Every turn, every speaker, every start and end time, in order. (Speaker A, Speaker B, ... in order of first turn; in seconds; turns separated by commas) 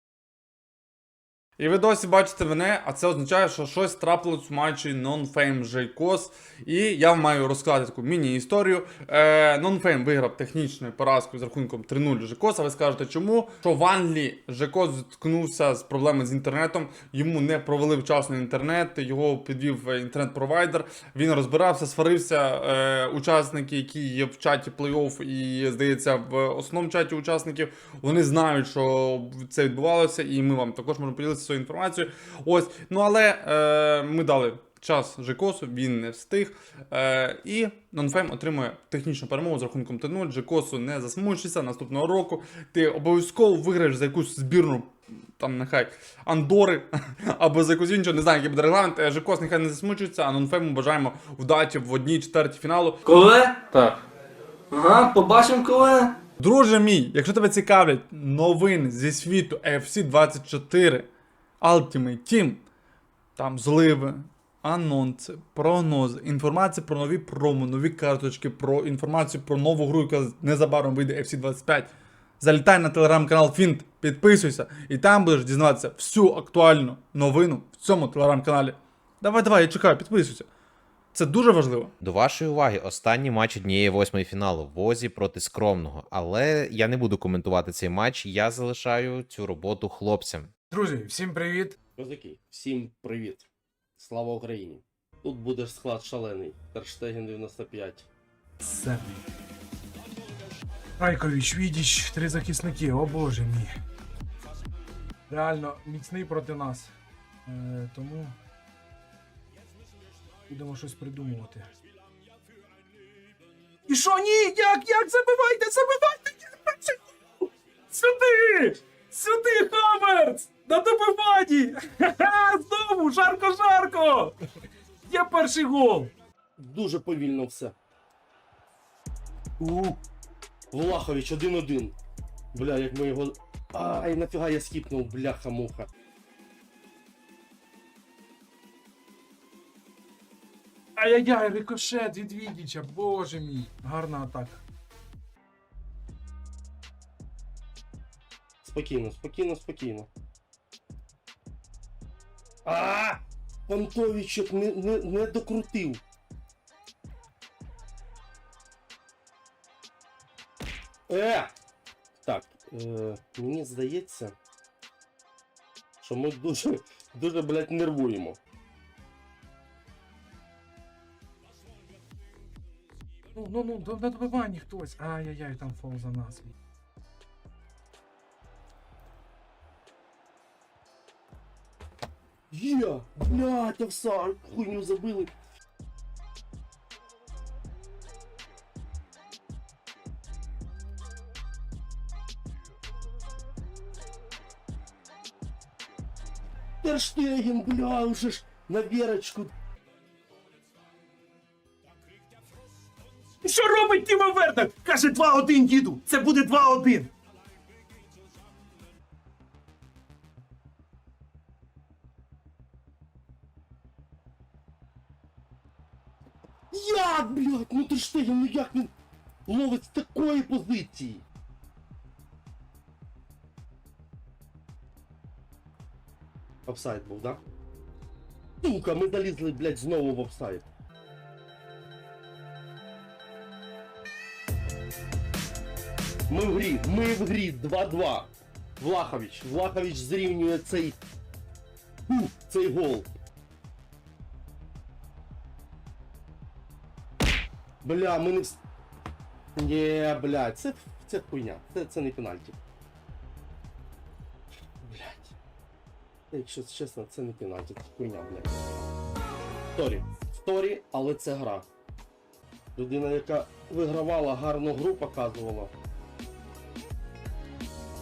Speaker A: 1.6-53.1, Speaker B: 53.1-54.0, Speaker B: 54.7-56.2, Speaker A: 56.4-61.1, Speaker A: 61.6-62.6, Speaker A: 63.4-80.5, Speaker A: 81.1-81.9, Speaker C: 82.0-90.5, Speaker D: 90.7-91.8, Speaker E: 92.0-93.5, Speaker E: 94.0-98.1, Speaker D: 98.6-99.2, Speaker D: 101.0-103.7, Speaker D: 105.3-106.9, Speaker D: 107.5-108.3, Speaker D: 110.5-111.7, Speaker D: 113.9-124.4, Speaker D: 125.1-126.1, Speaker E: 126.6-127.8, Speaker E: 129.6-130.0, Speaker E: 130.7-132.0, Speaker E: 132.5-135.9, Speaker D: 141.0-144.6, Speaker E: 148.6-150.1, Speaker E: 152.7-156.0, Speaker E: 161.1-161.5, Speaker E: 162.2-164.3, Speaker E: 166.0-168.4, Speaker D: 173.3-176.5, Speaker E: 182.5-185.3, Speaker E: 196.8-199.5, Speaker D: 203.4-207.1, Speaker E: 216.7-218.9, Speaker E: 219.5-221.2, Speaker E: 226.7-227.4, Speaker E: 228.6-230.7, Speaker E: 236.3-241.0, Speaker E: 242.1-243.1, Speaker E: 247.8-248.6, Speaker E: 249.6-252.6, Speaker E: 254.8-255.3, Speaker E: 256.3-258.7, Speaker E: 259.7-261.7, Speaker E: 262.8-265.7